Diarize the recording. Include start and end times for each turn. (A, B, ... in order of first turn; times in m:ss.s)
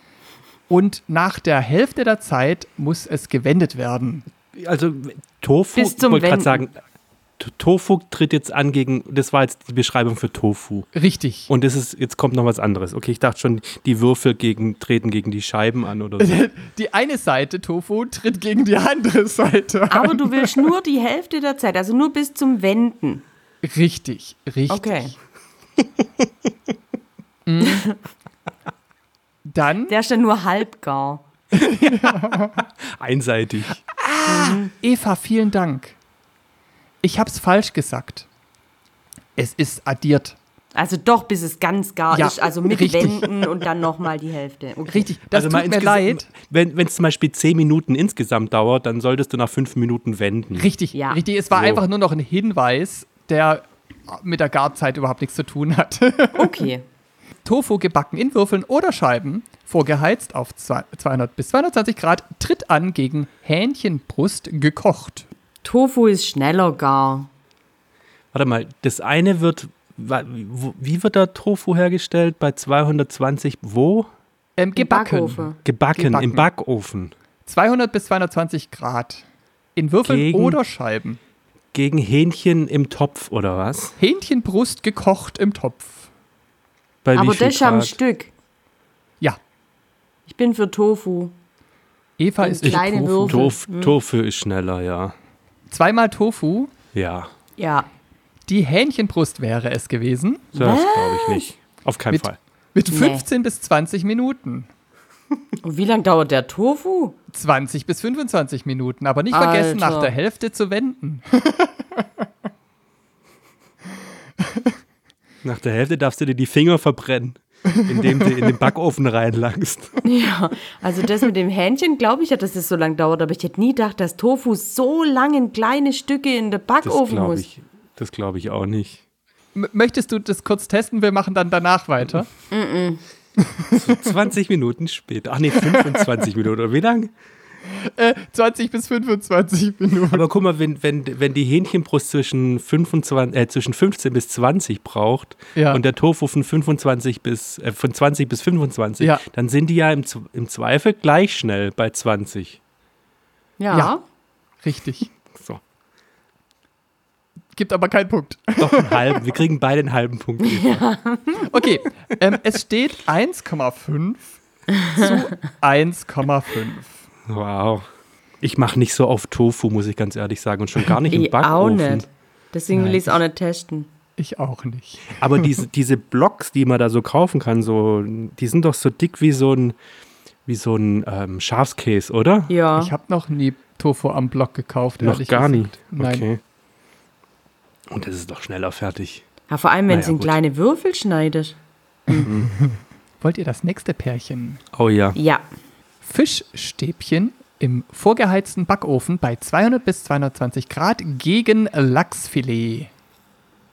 0:00.7-0:04.2 A
0:04.5-0:06.8 B
0:05.7-0:06.7 C
0:07.4-0:10.9 B
0:10.9-0:11.5 A
0:11.5-0:16.4 B
0:16.2-0:20.7 A
0:19.9-0:23.2 C
0:23.6-0:25.1 A
0:24.7-0:25.1 C
0:27.5-0:27.8 A
0:27.6-0:28.0 C
0:29.4-0:29.9 A
0:29.9-0:31.2 C
0:31.5-0:32.6 A
0:31.9-0:33.8 B
0:33.8-0:36.0 A
0:34.2-0:34.7 C
0:37.0-0:38.3 A
0:39.4-0:40.4 A
0:40.7-0:45.1 C
0:42.1-0:43.3 A
0:44.9-0:46.3 A
0:45.3-0:50.7 B
0:50.5-0:56.7 A
0:50.9-0:51.2 C
0:51.5-0:51.8 B
0:56.3-0:56.8 C
0:57.4-1:05.2 A
1:05.6-1:07.3 C
1:08.3-1:14.1 B
1:14.6-1:16.5 A
1:14.8-1:15.6 C
1:15.6-1:17.1 B
1:17.4-1:19.2 A
1:19.8-1:21.2 A
1:20.0-1:20.6 B
1:21.7-1:24.0 B
1:24.0-1:26.0 A
1:27.0-1:28.0 B
1:27.1-1:28.3 C
1:30.3-1:31.3 C
1:32.2-1:33.5 A
1:32.4-1:34.0 C
1:32.6-1:35.1 B
1:35.7-1:36.7 A
1:36.9-1:37.3 B
1:37.6-1:37.9 C
1:38.5-1:40.5 A
1:40.5-1:41.5 C
1:40.5-1:42.4 B
1:42.1-1:44.7 A
1:42.9-1:43.2 C
1:45.6-1:47.2 C
1:47.3-1:52.0 A
1:49.3-1:50.1 C
1:55.4-2:00.0 B
2:00.0-2:07.4 C
2:06.8-2:09.0 B
2:09.5-2:12.3 A
2:12.5-2:13.0 C
2:13.5-2:14.1 A
2:13.7-2:17.1 B
2:15.6-2:16.1 A
2:17.7-2:20.2 A
2:20.1-2:32.6 B
2:25.5-2:25.8 A
2:33.6-2:34.0 C
2:34.6-2:35.1 A
2:35.3-2:35.6 B
2:37.5-2:39.4 A
2:38.6-2:40.9 B
2:40.4-2:41.6 C
2:41.5-2:46.9 A
2:44.8-2:45.2 C
2:47.3-2:47.8 B
2:48.4-2:52.1 B
2:51.1-2:53.9 C
2:52.7-2:53.2 A
2:54.2-2:55.5 A
2:55.2-2:59.8 B
3:00.4-3:02.5 B
3:02.5-3:02.9 C
3:02.8-3:06.2 A
3:05.0-3:06.4 B
3:07.9-3:09.2 B
3:09.5-3:11.6 C
3:09.9-3:10.4 B
3:12.2-3:14.6 A
3:12.2-3:12.5 B
3:14.7-3:15.2 B
3:15.1-3:15.4 C
3:16.0-3:22.9 A